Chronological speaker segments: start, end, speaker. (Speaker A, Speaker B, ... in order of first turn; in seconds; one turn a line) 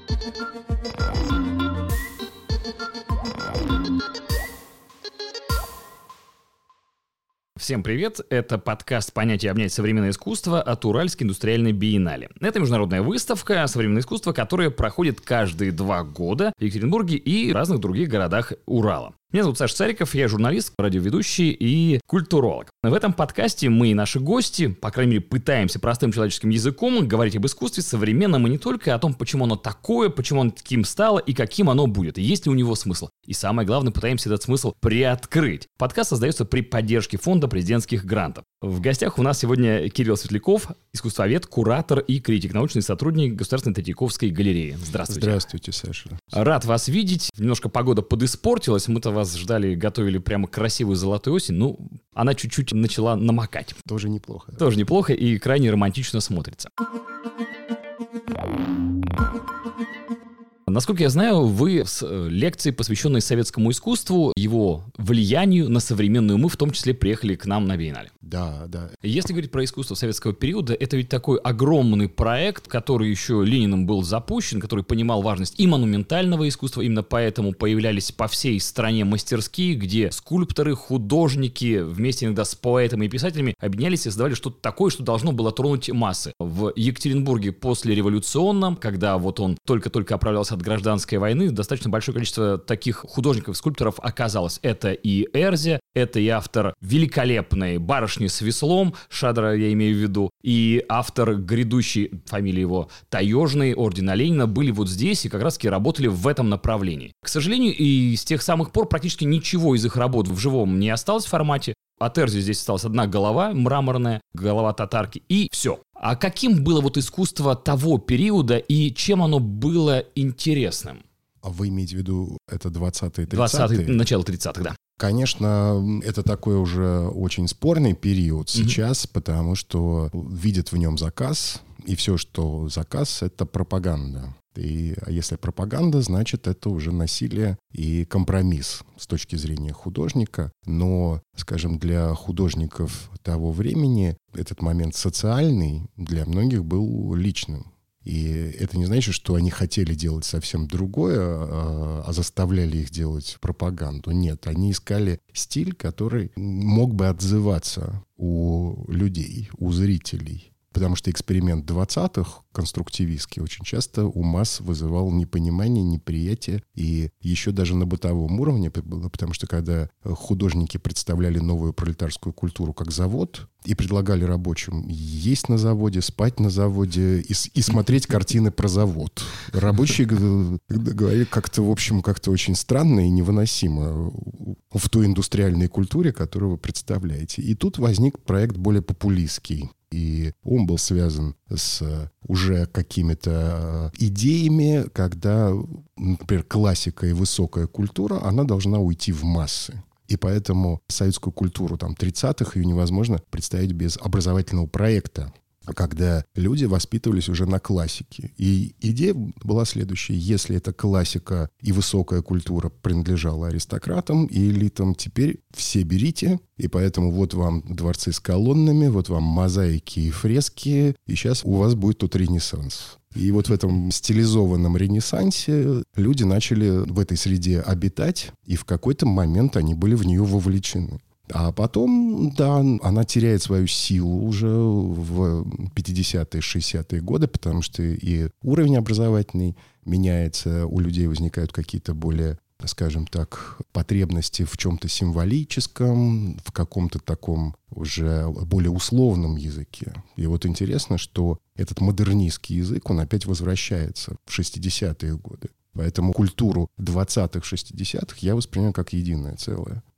Speaker A: 7.6-45.4
Speaker B: 45.1-46.2
Speaker A: 46.3-53.8
Speaker B: 53.9-54.6
Speaker A: 54.6-56.7
Speaker A: 60.7-68.1
Speaker B: 68.2-69.0
Speaker A: 69.0-121.0
Speaker B: 121.4-124.0
Speaker A: 123.3-124.8
Speaker B: 125.0-259.8